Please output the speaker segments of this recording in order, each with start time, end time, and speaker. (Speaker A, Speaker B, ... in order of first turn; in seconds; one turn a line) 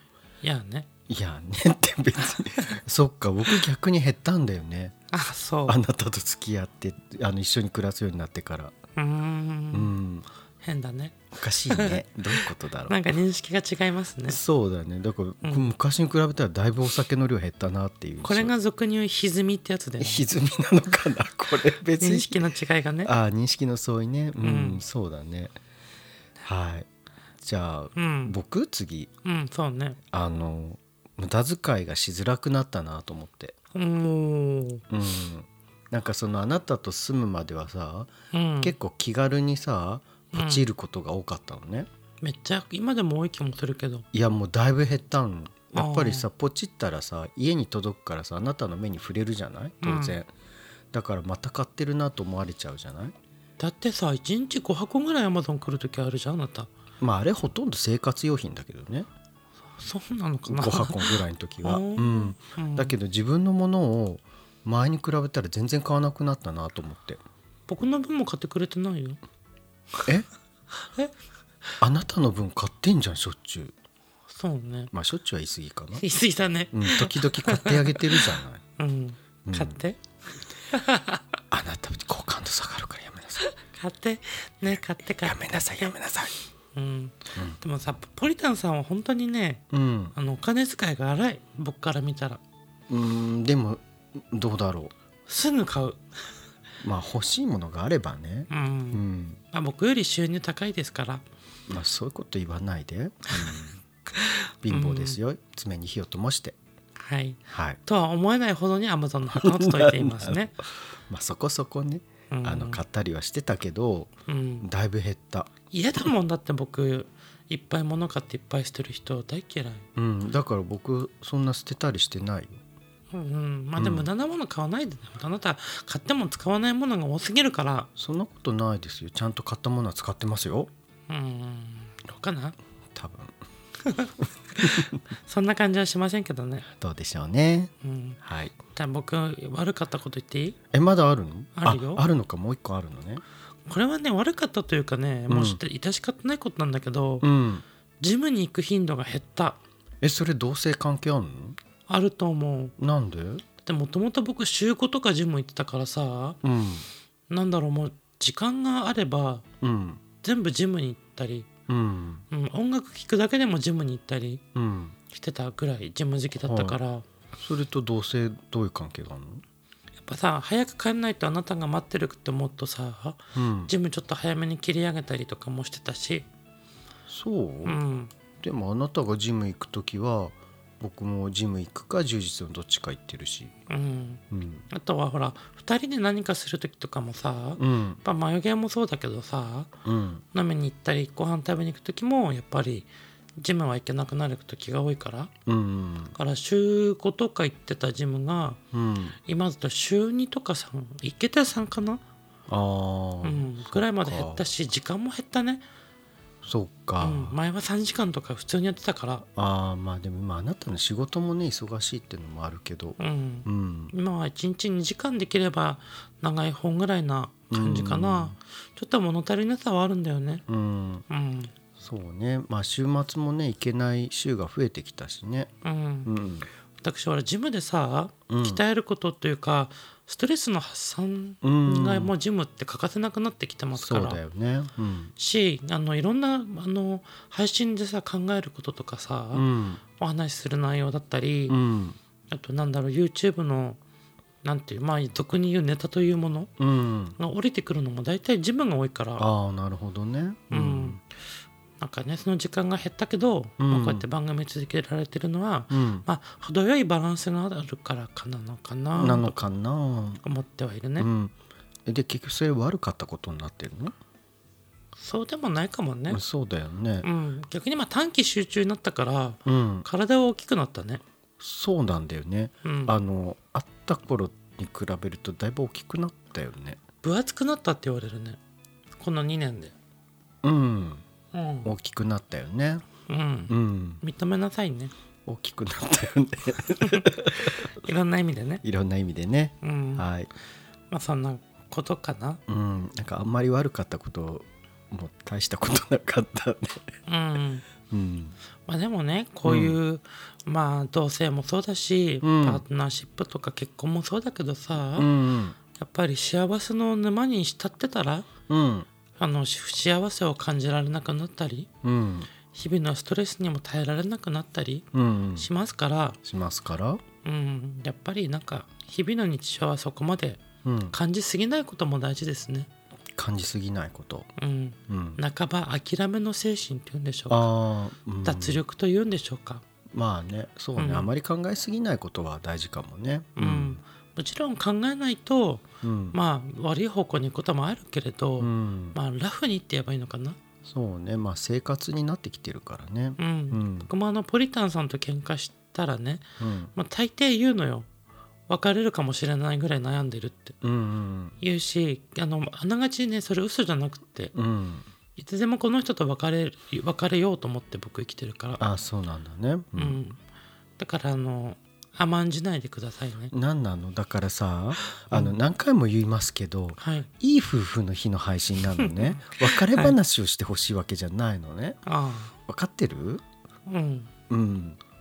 Speaker A: 0.4-0.9
Speaker B: 1.1-5.0
Speaker A: 5.1-5.8
Speaker B: 5.7-8.8
Speaker A: 9.0-9.9
Speaker B: 9.7-10.3
Speaker A: 10.6-14.4
Speaker B: 11.3-13.0
Speaker B: 14.3-18.5
Speaker A: 15.4-15.7
Speaker A: 18.2-20.2
Speaker B: 20.0-22.5
Speaker A: 22.0-23.1
Speaker B: 23.0-25.5
Speaker A: 24.4-24.8
Speaker B: 26.4-26.9
Speaker B: 27.4-29.1
Speaker A: 28.0-28.4
Speaker A: 29.2-30.0
Speaker B: 30.1-33.6
Speaker A: 33.7-34.9
Speaker B: 34.9-41.9
Speaker A: 38.3-38.8
Speaker A: 40.3-40.6
Speaker A: 42.2-44.0
Speaker B: 44.1-50.3
Speaker A: 45.8-46.3
Speaker A: 49.8-50.2
Speaker B: 50.9-53.1
Speaker A: 53.6-56.7
Speaker B: 57.0-59.1
Speaker A: 59.8-62.9
Speaker B: 60.5-67.2
Speaker A: 67.7-69.2
Speaker B: 71.8-73.7
Speaker A: 74.3-74.9
Speaker B: 74.9-76.0
Speaker A: 76.0-80.0
Speaker B: 76.7-78.6
Speaker B: 79.5-79.8
Speaker A: 80.7-81.2
Speaker B: 81.5-83.5
Speaker A: 83.4-86.0
Speaker B: 85.2-86.3
Speaker A: 86.8-92.4
Speaker B: 89.7-90.1
Speaker B: 92.9-94.9
Speaker A: 95.3-96.0
Speaker B: 96.8-99.4
Speaker A: 98.5-101.2
Speaker B: 101.7-103.8
Speaker A: 104.1-105.2
Speaker B: 104.6-106.6
Speaker A: 107.0-110.5
Speaker B: 107.5-107.8
Speaker B: 109.3-114.1
Speaker A: 112.3-112.8
Speaker A: 114.3-114.7
Speaker B: 114.6-115.5
Speaker A: 115.7-119.8
Speaker B: 120.0-122.6
Speaker A: 123.1-127.9
Speaker B: 123.8-124.1
Speaker B: 128.0-130.7
Speaker A: 131.1-132.6
Speaker B: 132.9-133.3
Speaker A: 133.8-136.7
Speaker B: 134.6-135.0
Speaker B: 136.7-138.5
Speaker A: 137.8-138.2
Speaker A: 138.8-140.6
Speaker B: 140.7-143.2
Speaker A: 141.6-142.0
Speaker A: 143.7-147.3
Speaker B: 145.3-145.6
Speaker B: 147.2-147.6
Speaker A: 148.0-149.6
Speaker B: 150.0-151.6
Speaker A: 151.9-152.8
Speaker B: 152.8-153.4
Speaker A: 153.6-156.4
Speaker B: 156.4-156.9
Speaker A: 157.3-159.4
Speaker B: 159.6-160.0
Speaker A: 160.2-161.5
Speaker B: 161.7-162.2
Speaker A: 162.3-164.4
Speaker B: 164.6-165.0
Speaker A: 165.1-167.1
Speaker B: 166.4-166.8
Speaker B: 167.4-169.4
Speaker A: 170.1-176.3
Speaker B: 173.3-173.7
Speaker B: 177.1-177.8
Speaker A: 177.7-178.1
Speaker B: 178.4-183.5
Speaker A: 183.7-189.7
Speaker B: 184.3-184.7
Speaker B: 187.6-188.0
Speaker B: 189.8-190.2
Speaker A: 190.3-195.3
Speaker B: 195.5-196.1
Speaker A: 196.2-198.6
Speaker B: 198.7-199.2
Speaker A: 199.3-202.0
Speaker B: 202.5-204.5
Speaker A: 203.2-205.7
Speaker B: 206.4-207.4
Speaker A: 207.0-209.3
Speaker B: 209.4-213.9
Speaker A: 213.0-220.4
Speaker B: 217.5-218.3
Speaker B: 220.5-221.1
Speaker A: 221.1-221.5
Speaker B: 221.8-225.5
Speaker A: 225.6-226.1
Speaker B: 226.1-226.5
Speaker A: 226.8-234.2
Speaker B: 228.3-228.6
Speaker B: 231.4-232.1
Speaker B: 233.8-235.1
Speaker A: 235.2-239.5
Speaker B: 239.3-239.8
Speaker A: 240.0-241.6
Speaker B: 241.5-242.0
Speaker A: 242.3-243.8
Speaker A: 244.4-246.5
Speaker B: 246.6-247.2
Speaker A: 247.2-249.3
Speaker B: 249.2-251.0
Speaker A: 250.5-251.0
Speaker A: 251.8-259.4
Speaker B: 253.6-254.1
Speaker B: 255.7-256.1
Speaker B: 258.9-260.2
Speaker A: 260.2-261.1
Speaker B: 261.0-261.3
Speaker B: 261.9-263.9
Speaker A: 265.0-266.2
Speaker B: 266.1-267.1
Speaker A: 267.0-271.0
Speaker B: 269.5-269.9
Speaker B: 271.4-276.8
Speaker A: 272.6-273.0
Speaker A: 277.0-278.4
Speaker A: 279.0-279.7
Speaker B: 280.4-281.0
Speaker A: 281.3-281.7
Speaker B: 281.6-282.9
Speaker A: 283.1-284.9
Speaker B: 283.5-284.0
Speaker B: 285.3-287.7
Speaker A: 287.6-288.6
Speaker B: 288.6-290.3
Speaker A: 289.6-290.1
Speaker A: 290.9-292.4
Speaker B: 292.5-296.9
Speaker A: 297.1-297.6
Speaker B: 297.9-298.4
Speaker A: 298.7-305.1
Speaker B: 299.5-299.8
Speaker B: 302.2-302.6
Speaker B: 305.0-305.6
Speaker A: 305.7-308.3
Speaker B: 308.5-308.9
Speaker A: 309.2-311.7
Speaker B: 311.8-312.3
Speaker A: 312.5-316.2
Speaker B: 314.9-315.5
Speaker B: 316.2-317.0
Speaker A: 317.2-322.7
Speaker B: 320.6-320.9
Speaker B: 323.2-324.3
Speaker A: 324.4-327.5
Speaker B: 324.9-325.2
Speaker B: 327.3-328.6
Speaker A: 328.2-329.6
Speaker B: 329.9-333.8
Speaker A: 330.8-331.1
Speaker A: 333.4-340.4
Speaker B: 335.8-336.2
Speaker B: 338.4-339.0
Speaker B: 340.6-343.9
Speaker A: 343.2-346.2
Speaker B: 346.4-346.7
Speaker A: 346.8-347.9
Speaker A: 348.5-350.6
Speaker B: 350.6-351.4
Speaker A: 351.4-354.4
Speaker B: 354.3-354.8
Speaker A: 355.2-358.6
Speaker B: 358.6-360.0
Speaker A: 359.8-360.2
Speaker A: 360.8-363.3
Speaker B: 363.3-371.8
Speaker A: 365.0-365.4
Speaker A: 366.8-367.1
Speaker A: 368.8-370.0
Speaker A: 371.9-372.3
Speaker B: 372.5-373.2
Speaker A: 373.7-374.1
Speaker B: 374.3-374.8